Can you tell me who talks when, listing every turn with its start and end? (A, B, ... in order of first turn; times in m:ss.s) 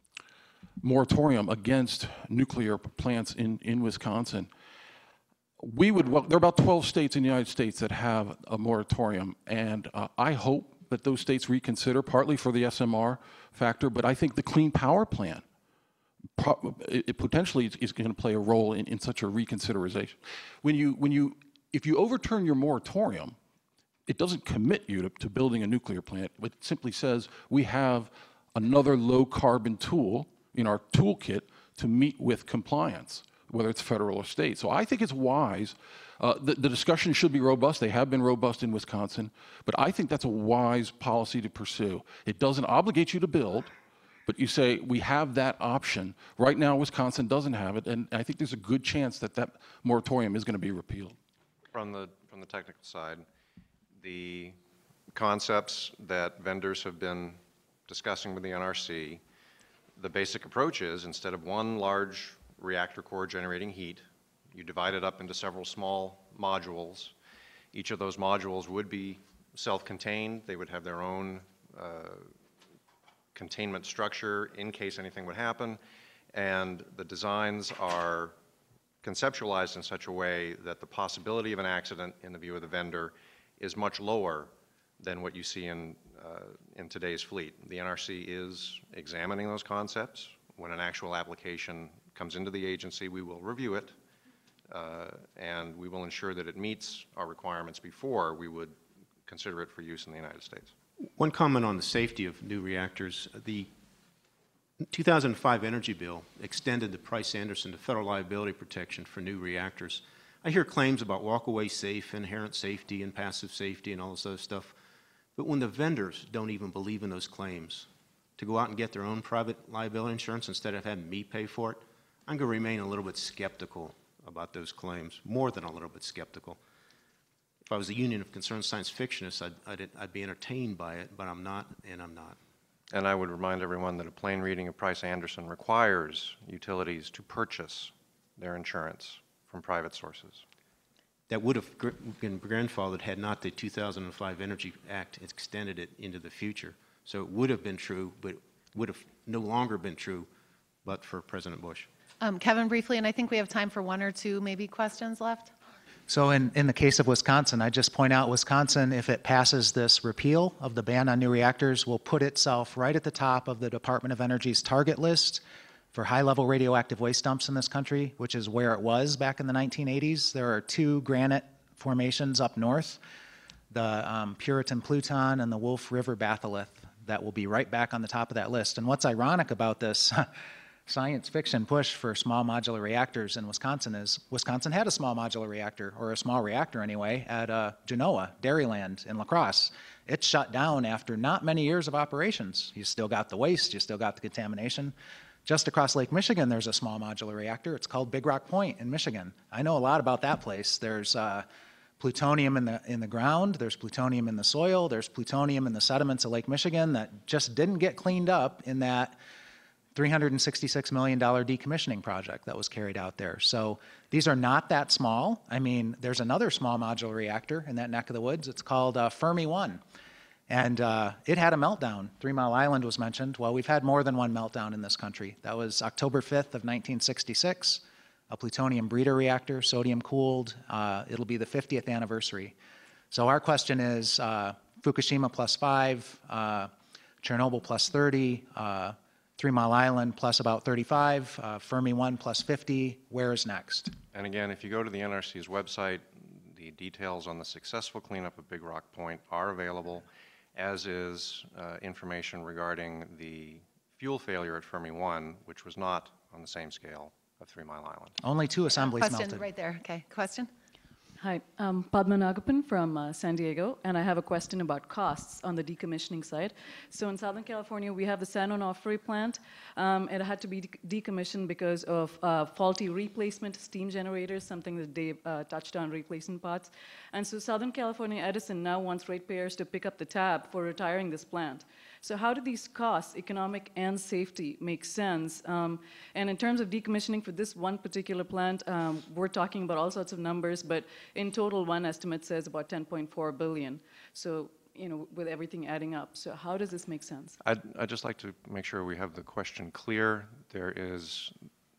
0:00.8-0:04.5 A
0:05.6-0:15.4 A
0:16.4-0:23.4 A
0:24.1-0:43.7 A
0:44.2-0:51.2 A
0:51.7-0:53.2 B
0:54.0-0:54.6 B
0:55.1-0:59.2 B
1:00.0-1:07.1 B
1:07.7-1:12.3 B
1:13.3-1:15.8 B
1:16.3-1:18.3 B
1:19.0-1:33.9 B
1:34.7-1:38.7 B
1:39.2-1:40.7 B
1:41.2-1:43.7 C
1:44.8-1:54.7 C
1:55.4-2:06.6 C
2:07.6-2:12.4 C
2:12.9-2:20.4 B
2:21.3-2:30.3 C
2:30.8-2:31.9 C
2:32.2-2:35.5 D
2:36.1-2:45.4 E
2:45.9-2:53.0 E
2:53.7-3:00.3 E
3:00.8-3:21.4 E
3:22.0-3:29.2 E
3:29.9-3:39.8 E
3:40.5-3:52.6 E
3:53.1-4:03.9 E
4:04.1-4:18.2 B
4:18.2-4:19.4 E
4:18.8-4:20.5 D
4:21.2-4:57.4 F
4:57.4-5:01.3 B